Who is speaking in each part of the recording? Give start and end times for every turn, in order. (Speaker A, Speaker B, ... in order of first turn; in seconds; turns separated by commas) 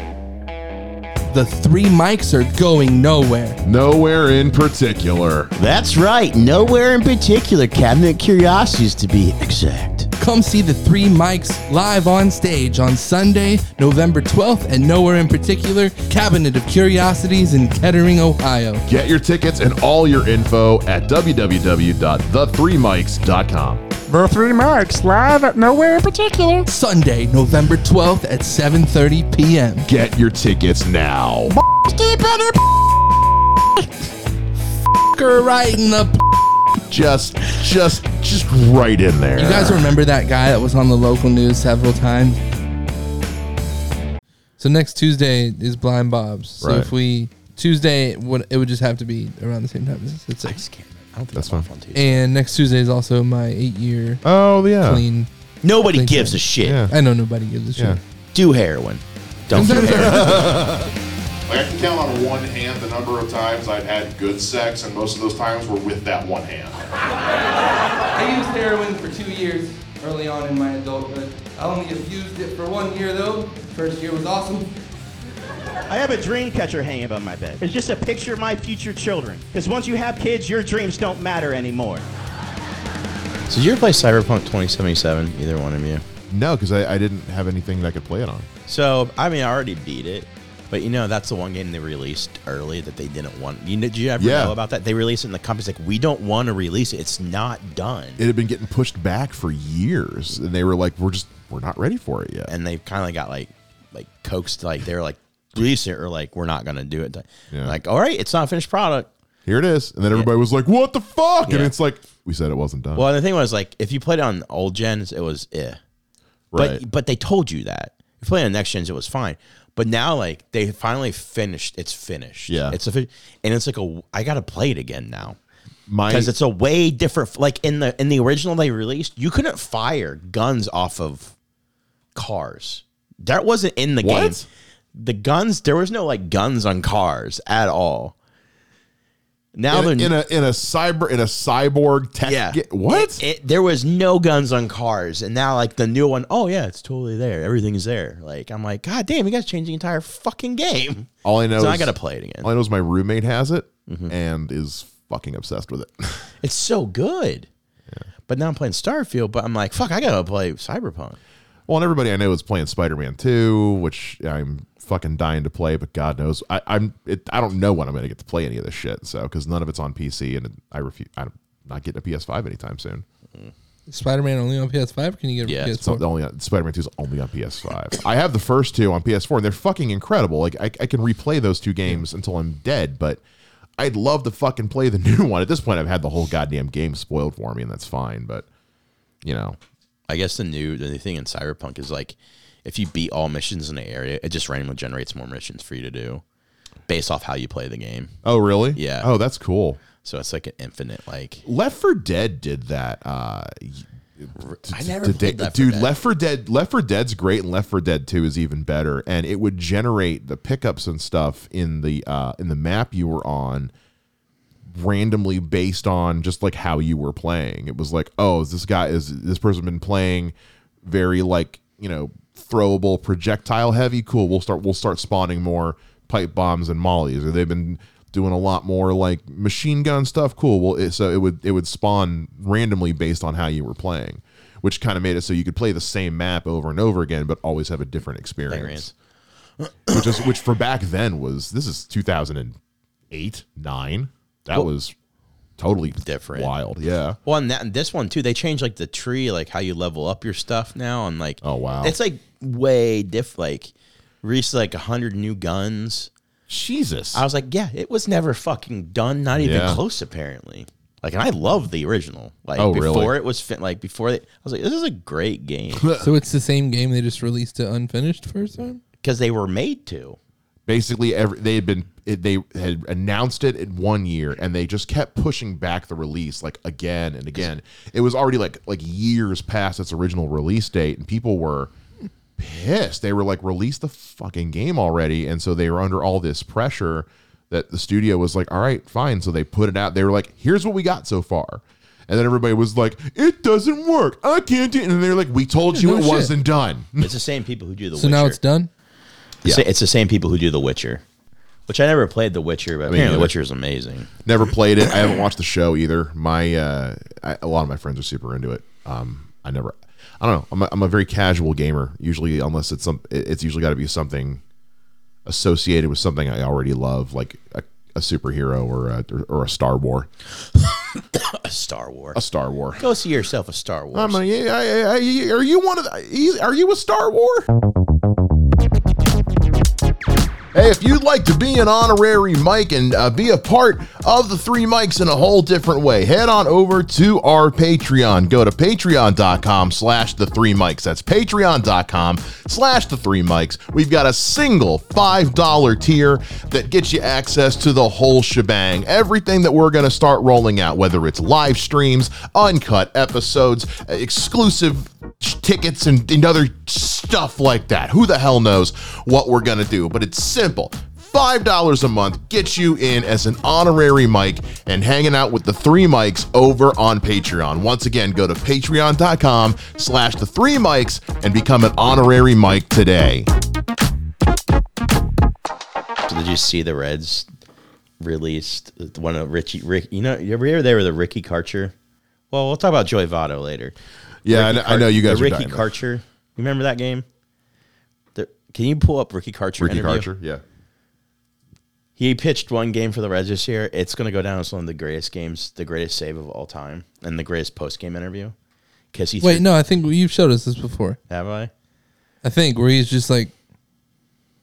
Speaker A: 1.3-3.6, Speaker B: 3.6-5.5, Speaker C: 5.6-10.1, Speaker A: 10.2-18.9, Speaker B: 18.9-23.9, Speaker D: 24.1-26.7, Speaker A: 26.7-29.9, Speaker B: 29.9-31.6, Speaker D: 31.5-32.5, Speaker A: 35.1-36.2, Speaker B: 36.9-40.0, Speaker A: 39.4-42.4, Speaker A: 44.6-50.6, Speaker B: 46.6-46.9, Speaker C: 50.4-52.2, Speaker B: 51.3-51.7, Speaker A: 52.0-54.2, Speaker B: 54.2-55.0, Speaker A: 54.8-55.3, Speaker C: 55.6-56.8, Speaker A: 55.9-58.0, Speaker B: 56.6-56.9, Speaker C: 58.4-60.5, Speaker A: 59.5-60.5, Speaker B: 59.5-60.9, Speaker B: 61.5-67.0, Speaker A: 68.0-74.7, Speaker E: 75.9-82.1, Speaker C: 83.5-86.0, Speaker B: 86.3-88.5, Speaker C: 88.7-98.2, Speaker B: 94.2-94.6, Speaker B: 98.2-102.5, Speaker C: 102.5-109.1, Speaker B: 107.5-107.8, Speaker B: 109.5-113.0, Speaker C: 111.5-111.7, Speaker C: 113.0-115.8, Speaker B: 116.5-116.8, Speaker C: 116.5-125.4, Speaker B: 122.5-122.8, Speaker B: 125.9-126.3, Speaker C: 126.1-131.3, Speaker C: 132.2-138.2, Speaker B: 134.0-134.4, Speaker C: 139.6-140.1, Speaker B: 139.7-143.2, Speaker C: 142.2-152.5, Speaker B: 151.2-156.3, Speaker C: 153.9-154.1, Speaker C: 156.4-157.5, Speaker C: 158.3-161.2, Speaker B: 161.7-173.1, Speaker A: 173.9-176.0, Speaker C: 175.4-175.8, Speaker B: 175.7-183.2, Speaker B: 183.8-188.5, Speaker B: 189.2-189.6, Speaker C: 190.1-196.2, Speaker C: 196.9-198.2, Speaker B: 198.2-199.8, Speaker C: 198.8-199.1, Speaker C: 200.0-201.4, Speaker B: 201.4-213.7, Speaker C: 204.4-206.0, Speaker B: 214.7-238.9, Speaker C: 238.5-238.9, Speaker C: 239.6-240.1, Speaker B: 239.9-242.6, Speaker B: 243.1-244.9, Speaker B: 245.6-247.2, Speaker C: 246.0-246.5, Speaker C: 247.2-256.1, Speaker B: 251.4-252.0, Speaker B: 256.5-257.2, Speaker C: 257.1-265.9, Speaker B: 259.4-259.8, Speaker B: 262.6-263.1, Speaker B: 265.7-266.1, Speaker A: 266.0-268.8, Speaker C: 269.0-270.2, Speaker B: 270.7-281.7, Speaker B: 282.4-297.1, Speaker A: 295.7-296.3, Speaker C: 297.0-298.4, Speaker A: 298.0-298.7, Speaker C: 299.4-301.0, Speaker C: 301.7-304.1, Speaker B: 302.9-303.3, Speaker B: 304.2-314.4, Speaker B: 315.2-320.1, Speaker C: 320.9-322.2, Speaker B: 322.1-322.9, Speaker C: 322.8-324.2, Speaker B: 323.9-327.5, Speaker B: 330.5-373.3, Speaker C: 376.1-377.3, Speaker C: 378.0-381.7, Speaker C: 382.3-387.1, Speaker B: 384.2-385.7, Speaker C: 388.1-390.1, Speaker B: 389.6-390.4, Speaker C: 392.0-398.4, Speaker C: 398.9-399.5, Speaker A: 399.2-401.0, Speaker C: 401.1-401.5, Speaker A: 402.2-403.3